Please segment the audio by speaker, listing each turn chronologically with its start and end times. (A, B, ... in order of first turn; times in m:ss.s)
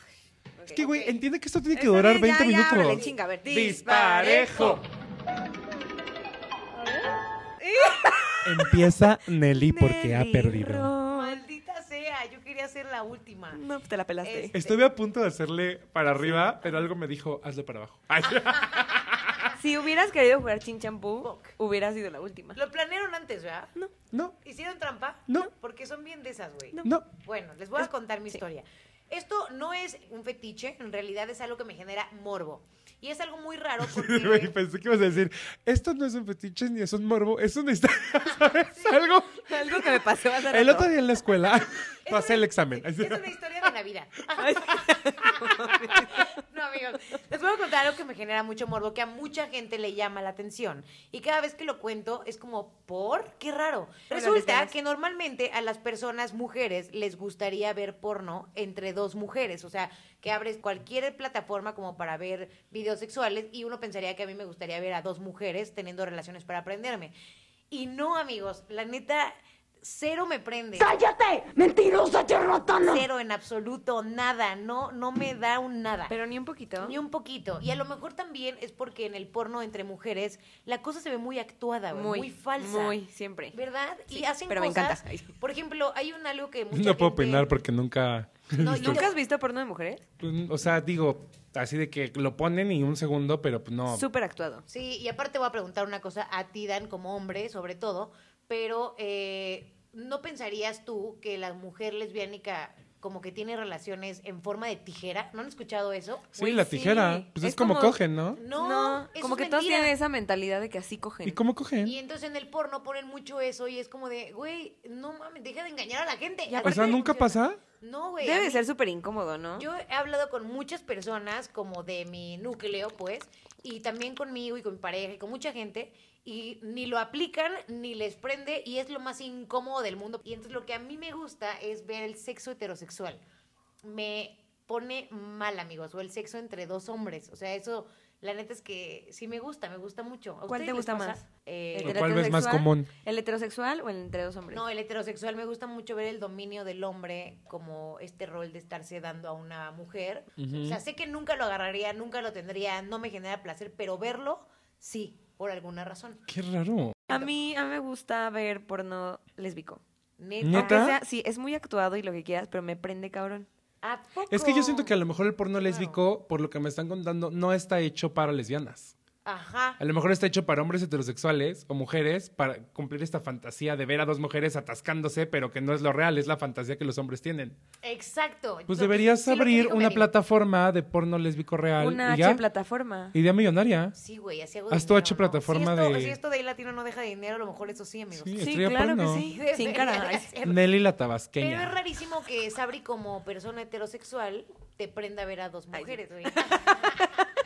0:00.6-0:00.8 A
0:00.7-0:04.8 B
0:00.8-0:01.1 C
0:01.7-0:04.8 A
0:02.9-0:03.1 C
0:06.8-0:07.1 A
0:07.6-0:08.9 A
0:08.4-0:10.9 B
0:09.5-0:11.4 A
0:11.1-0:13.6 C
0:13.5-0:14.5 A
0:14.2-0:14.8 C
0:14.5-0:19.5 B
0:19.5-0:22.6 A
0:22.6-0:23.7 C
0:24.4-0:34.5 C
0:26.8-0:27.1 B
0:33.8-0:43.3 B
0:39.5-0:40.9 A
0:42.1-1:07.1 C
0:44.4-0:46.3 A
0:54.1-0:54.7 A
1:07.7-1:10.9 C
1:10.8-1:13.1 D
1:12.8-1:16.2 C
1:16.1-1:17.0 A
1:16.8-1:23.0 C
1:21.9-1:23.6 A
1:23.5-1:27.5 C
1:24.1-1:25.3 A
1:26.7-1:29.0 B
1:28.5-1:29.1 C
1:28.7-1:30.0 A
1:30.2-1:34.1 B
1:33.9-1:34.6 A
1:34.7-1:46.3 C
1:46.3-1:48.4 B
1:46.4-1:48.0 A
1:48.4-1:49.9 C
1:48.5-1:51.4 A
1:51.2-1:52.0 B
1:51.8-1:58.6 C
1:56.5-1:57.1 A
1:56.6-1:57.6 B
1:58.2-1:59.7 A
1:59.6-2:13.2 C
2:13.8-2:22.1 C
2:20.5-2:21.2 A
2:21.7-2:24.6 A
2:21.8-2:22.9 B
2:24.5-2:36.2 C
2:30.4-2:30.8 B
2:36.3-2:37.2 B
2:37.1-2:39.8 A
2:40.2-2:40.9 C
2:40.4-2:41.0 B
2:40.5-2:43.5 A
2:43.8-2:44.9 C
2:44.3-2:48.9 B
2:45.6-2:46.0 C
2:49.2-2:49.8 C
2:49.8-2:57.6 B
2:57.8-3:00.1 C
2:58.7-3:02.4 B
3:01.8-3:03.2 A
3:03.1-3:03.9 B
3:03.9-3:08.4 C
3:04.7-3:06.2 B
3:08.1-3:09.2 B
3:08.4-3:10.3 A
3:09.1-3:10.7 C
3:10.4-3:11.8 B
3:11.4-3:17.0 C
3:15.7-3:17.3 A